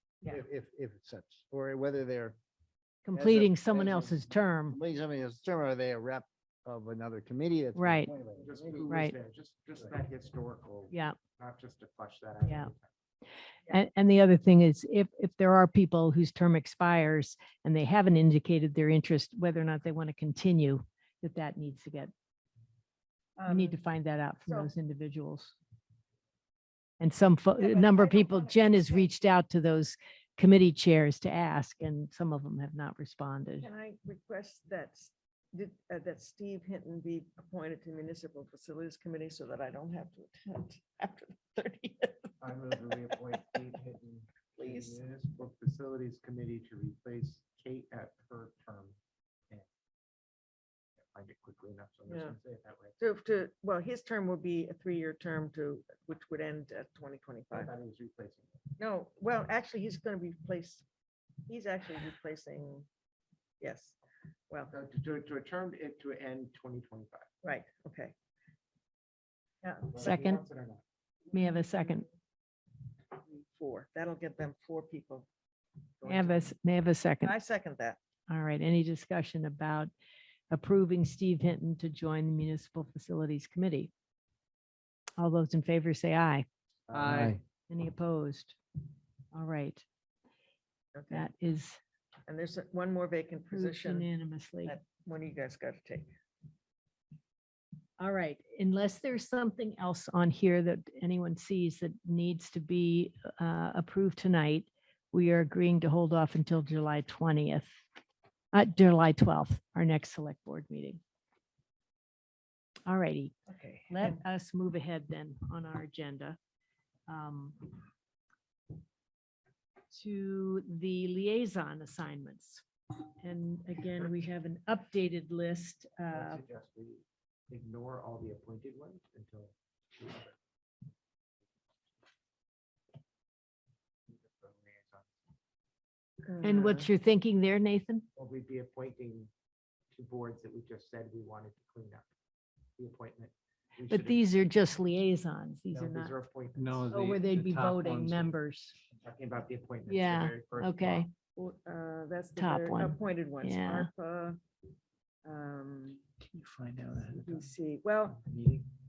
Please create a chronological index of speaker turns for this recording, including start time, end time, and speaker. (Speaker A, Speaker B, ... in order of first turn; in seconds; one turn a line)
Speaker A: 0.3-2.4
Speaker B: 3.0-4.8
Speaker A: 3.1-8.9
Speaker B: 7.8-8.1
Speaker C: 8.4-12.9
Speaker B: 8.9-9.1
Speaker B: 10.9-11.2
Speaker B: 12.4-12.7
Speaker B: 13.7-22.1
Speaker D: 23.4-23.8
Speaker B: 23.5-25.5
Speaker D: 24.5-24.7
Speaker B: 27.0-33.7
Speaker D: 27.6-29.1
Speaker D: 33.6-43.4
Speaker C: 42.4-49.0
Speaker D: 44.6-45.0
Speaker C: 51.1-53.0
Speaker D: 52.1-52.4
Speaker D: 53.0-57.7
Speaker C: 57.5-58.6
Speaker D: 58.8-60.8
Speaker D: 61.5-62.9
Speaker D: 63.6-64.0
Speaker C: 64.7-67.3
Speaker D: 67.4-68.1
Speaker D: 69.6-70.2
Speaker C: 69.9-70.8
Speaker B: 70.0-70.4
Speaker B: 71.3-72.1
Speaker D: 71.4-72.0
Speaker D: 73.2-75.3
Speaker C: 76.0-76.5
Speaker B: 76.0-77.3
Speaker D: 77.2-78.0
Speaker B: 78.3-79.9
Speaker B: 80.5-83.9
Speaker B: 85.2-86.5
Speaker C: 86.9-87.4
Speaker A: 86.9-87.4
Speaker B: 87.7-88.6
Speaker B: 89.3-89.8
Speaker D: 90.9-91.3
Speaker B: 91.1-91.8
Speaker D: 92.3-94.1
Speaker B: 93.5-94.8
Speaker D: 94.7-96.1
Speaker B: 98.0-107.7
Speaker B: 108.5-111.0
Speaker B: 112.9-113.3
Speaker D: 113.5-114.2
Speaker B: 113.9-116.4
Speaker B: 117.1-117.7
Speaker B: 119.9-122.6
Speaker B: 123.2-126.4
Speaker C: 126.1-130.3
Speaker C: 134.1-135.1
Speaker D: 136.2-136.9
Speaker B: 136.4-138.1
Speaker C: 138.2-139.3
Speaker C: 139.9-142.1
Speaker C: 142.8-144.2
Speaker B: 143.9-146.2
Speaker C: 145.7-147.0
Speaker E: 146.6-148.3
Speaker B: 146.9-148.8
Speaker C: 148.9-151.1
Speaker B: 149.9-151.1
Speaker D: 151.4-154.4
Speaker B: 152.4-153.9
Speaker D: 155.2-156.0
Speaker E: 156.3-157.5
Speaker D: 157.2-158.2
Speaker E: 158.2-158.7